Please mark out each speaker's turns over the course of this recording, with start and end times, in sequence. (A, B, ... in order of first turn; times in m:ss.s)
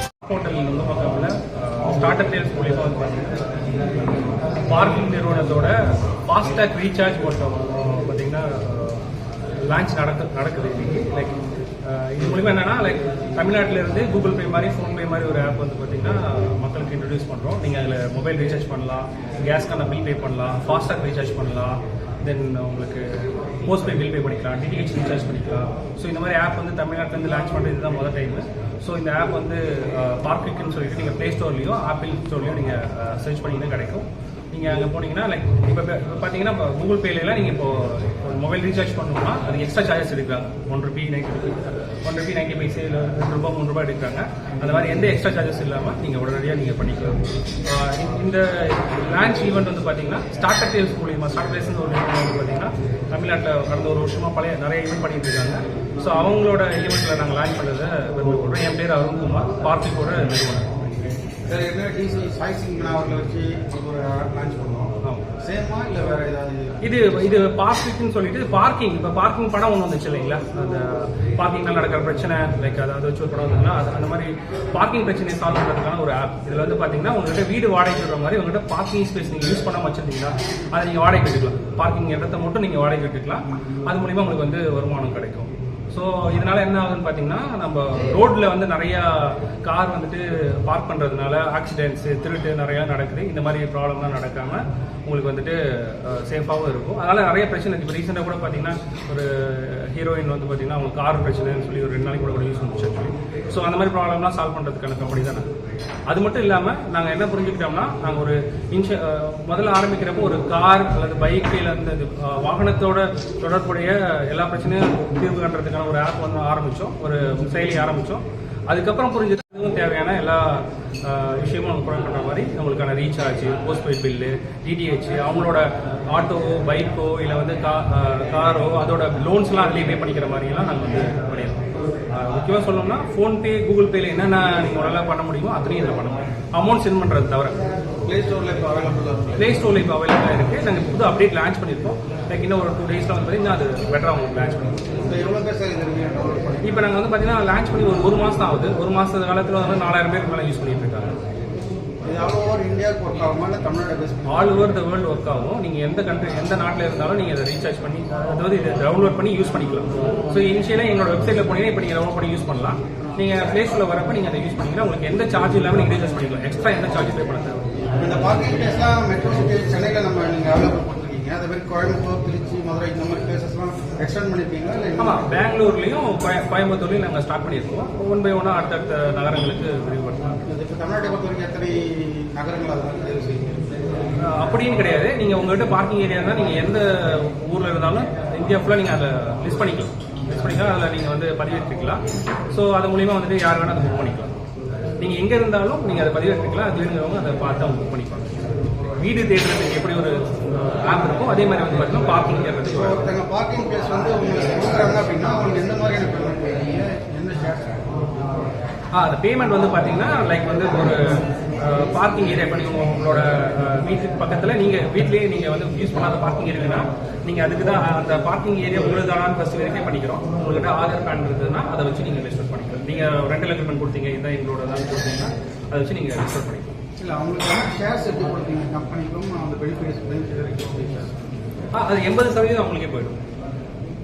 0:00.2-0:03.4 A
0:04.6-0:09.0 A
0:09.6-1:01.2 A
1:01.5-1:07.1 B
1:05.0-1:05.3 A
1:06.8-1:45.5 A
1:46.1-2:17.6 A
2:18.0-2:19.6 B
2:19.4-2:24.9 A
2:25.0-2:26.9 B
2:26.6-2:31.1 A
2:32.0-2:34.6 B
2:34.3-2:47.6 A
2:48.0-2:55.4 B
2:55.0-3:00.4 A
3:00.5-3:03.6 B
3:04.2-3:14.4 A
3:15.0-3:18.4 A
3:19.0-3:23.0 A
3:22.7-3:28.2 B
3:28.9-3:46.7 A
3:47.0-3:51.1 B
3:51.7-3:53.2 A